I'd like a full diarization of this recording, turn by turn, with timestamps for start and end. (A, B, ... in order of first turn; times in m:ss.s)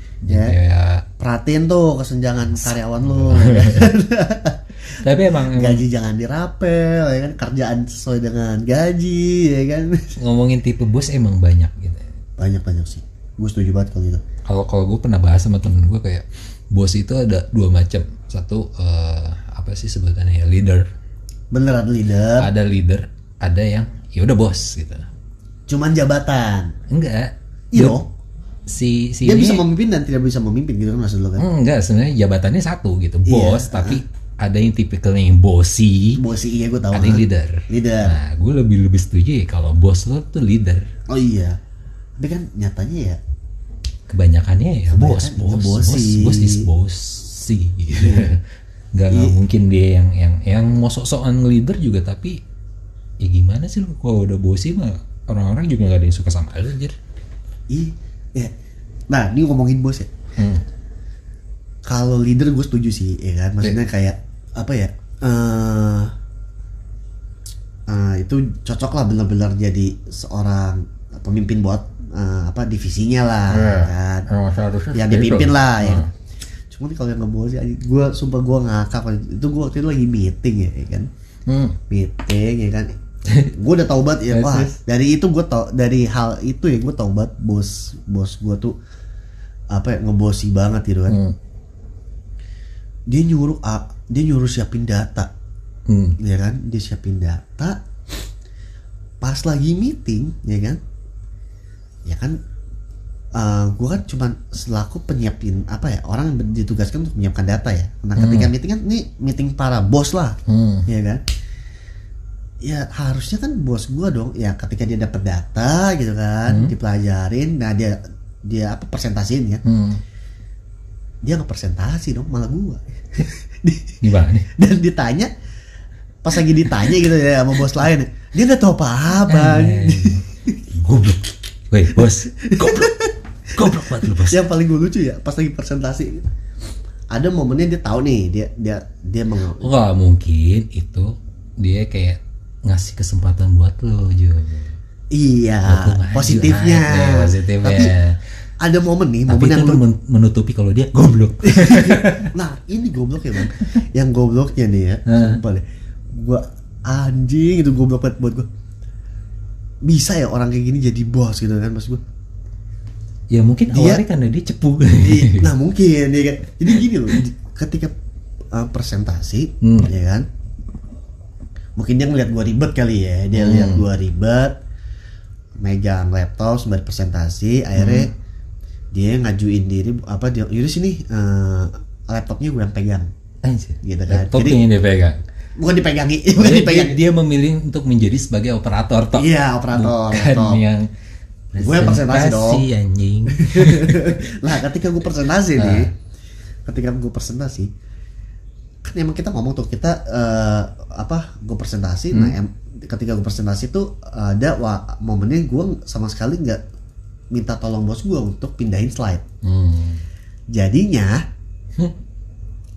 0:00.2-0:01.0 A
0:00.3-0:00.6 B
0:01.2-0:10.2 B
0:02.5-0:03.9 A
0:05.0-0:05.8 A
0:10.2-0:12.1 A
0:12.4-0:14.2 B
0:14.4-0:20.9 A
0:21.5-0:22.5 B
0:22.4-0:25.1 A
0:25.7-0:26.7 B
0:26.9-0:28.0 A
0:27.7-0:28.1 B
0:28.7-0:29.6 A
0:29.2-0:31.4 B
0:31.4-0:36.2 A
0:33.2-0:34.0 B
0:36.2-0:38.2 B
0:36.9-0:40.9 A
0:41.1-0:41.6 B
0:42.2-0:43.2 B
0:44.1-0:48.4 A
0:44.9-0:46.7 B
0:47.9-0:48.3 B
0:48.9-0:52.4 A
0:49.1-0:49.4 B
0:53.2-0:57.0 A
0:57.7-0:58.5 B
0:59.1-1:00.1 B
1:00.4-1:00.6 A
1:01.8-1:06.1 B
1:07.9-1:14.3 B
1:13.5-1:16.1 A
1:14.9-1:16.1 B
1:16.7-1:21.1 B
1:21.5-1:21.8 A
1:21.9-1:22.9 B
1:23.2-1:23.5 A
1:23.5-1:28.7 B
1:24.3-1:24.8 A
1:29.7-1:31.2 B
1:31.1-1:31.4 A
1:33.1-1:35.3 B
1:35.9-1:36.2 A
1:36.2-1:37.8 B
1:39.2-1:40.8 B
1:42.0-1:42.4 B
1:43.3-1:51.2 B
1:48.2-1:48.5 A
1:50.4-1:50.9 A
1:52.6-1:59.6 B
1:56.5-1:56.7 A
1:59.6-2:00.0 A
2:01.2-2:05.3 B
2:04.0-2:04.5 A
2:06.2-2:10.5 B
2:06.6-2:06.9 A
2:09.2-2:12.9 A
2:12.0-2:16.3 B
2:13.5-2:14.4 A
2:17.1-2:19.7 B
2:19.6-2:24.8 A
2:25.1-2:27.9 B
2:25.6-2:28.2 A
2:28.6-2:29.8 B
2:29.3-2:32.3 A
2:31.4-2:38.5 B
2:35.1-2:35.4 A
2:39.8-2:42.0 B
2:43.3-2:45.5 A
2:43.7-2:44.0 B
2:45.0-2:47.9 B
2:48.5-2:50.3 B
2:49.6-2:49.9 A
2:51.8-2:54.6 B
2:53.3-2:53.9 A
2:55.6-2:58.1 B
2:57.8-2:58.1 A
2:58.9-3:03.1 B
3:03.4-3:05.2 A
3:03.8-3:04.6 B
3:05.6-3:07.0 B
3:06.4-3:10.9 A
3:09.1-3:10.6 B
3:11.5-3:14.2 A
3:11.6-3:12.6 B
3:13.3-3:15.9 B
3:15.5-3:15.9 A
3:16.6-3:17.7 B
3:18.8-3:26.6 B
3:22.1-3:22.4 A
3:27.3-3:29.2 B
3:29.4-3:30.0 A
3:30.5-3:31.2 B